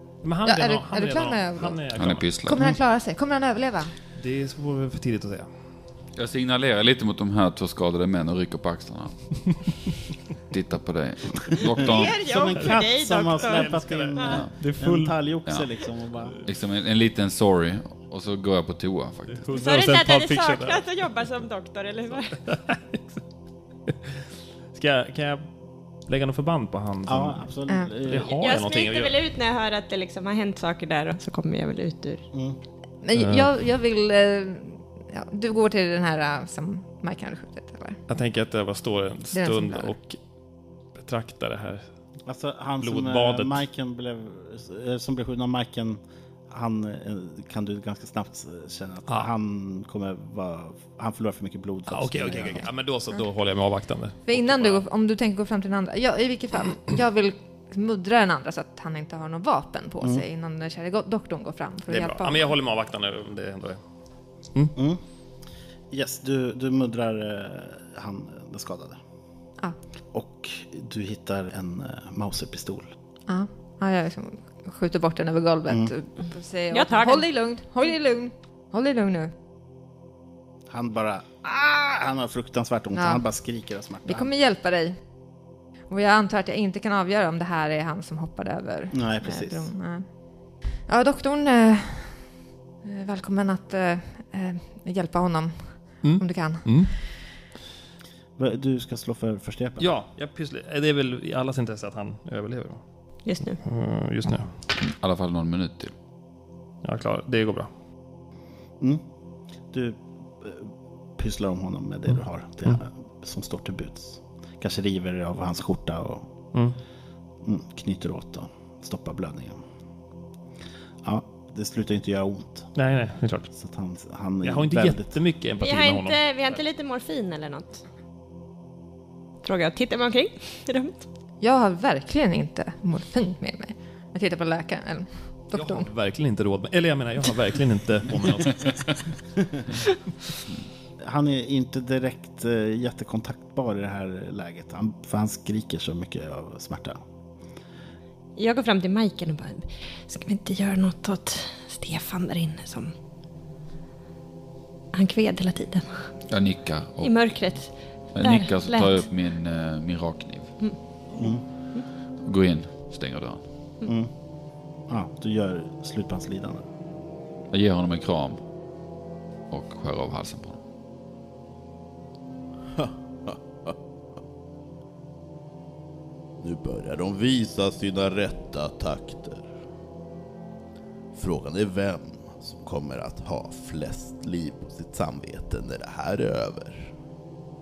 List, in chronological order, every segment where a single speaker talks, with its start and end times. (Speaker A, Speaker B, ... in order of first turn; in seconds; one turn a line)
Speaker A: 0.2-2.4
Speaker B: 0.4-1.8
Speaker C: 1.9-2.7
Speaker B: 2.4-3.9
Speaker A: 4.2-5.5
Speaker C: 6.2-9.2
Speaker C: 10.5-12.2
Speaker D: 11.7-14.4
Speaker E: 11.7-16.4
Speaker A: 13.4-15.2
Speaker C: 14.2-14.5
Speaker C: 16.4-19.5
Speaker A: 19.4-20.8
Speaker D: 19.5-22.4
Speaker A: 22.4-23.2
Speaker A: 24.7-25.5
Speaker A: 26.1-27.5
Speaker E: 27.1-28.4
Speaker B: 27.7-27.9
Speaker A: 28.1-29.1
Speaker D: 28.3-32.3
Speaker E: 32.3-32.6
Speaker B: 33.0-38.0
Speaker A: 33.1-33.5
Speaker A: 38.1-40.2
Speaker B: 39.3-39.9
Speaker A: 41.0-41.9
Speaker E: 42.3-52.7
Speaker A: 42.8-43.6
Speaker A: 51.9-54.8
Speaker B: 54.3-62.5
Speaker A: 61.9-63.8
Speaker E: 64.8-65.0
Speaker E: 65.9-69.0
Speaker E: 70.1-72.9
Speaker B: 73.3-79.3
Speaker D: 76.7-77.3
Speaker E: 80.7-84.3
Speaker B: 82.9-83.2
Speaker B: 84.1-85.0
Speaker B: 85.9-90.1
Speaker E: 88.9-89.7
Speaker B: 90.9-92.3
Speaker B: 92.8-97.0
Speaker A: 96.0-96.9
Speaker E: 98.4-99.9
Speaker A: 99.8-102.8
Speaker D: 103.2-103.6
Speaker A: 103.6-104.5
Speaker C: 104.8-105.9
Speaker A: 106.8-107.7
Speaker E: 109.7-116.3
Speaker E: 117.4-119.6
Speaker E: 121.0-122.7
Speaker A: 122.8-123.5
Speaker E: 123.5-125.2
Speaker A: 124.4-126.6
Speaker D: 125.6-127.8
Speaker D: 129.4-131.1
Speaker B: 131.4-135.9
Speaker A: 135.5-139.1
Speaker E: 141.0-147.0
Speaker D: 148.4-152.9
Speaker D: 154.9-156.1
Speaker C: 156.3-157.2
Speaker D: 157.0-159.0
Speaker C: 158.2-160.5
Speaker E: 161.2-161.4
Speaker C: 162.2-163.4
Speaker E: 163.9-164.1
Speaker E: 164.9-166.6
Speaker C: 167.5-168.4
Speaker C: 169.5-170.6
Speaker F: 172.8-173.8
Speaker F: 176.4-179.5
Speaker F: 181.2-186.9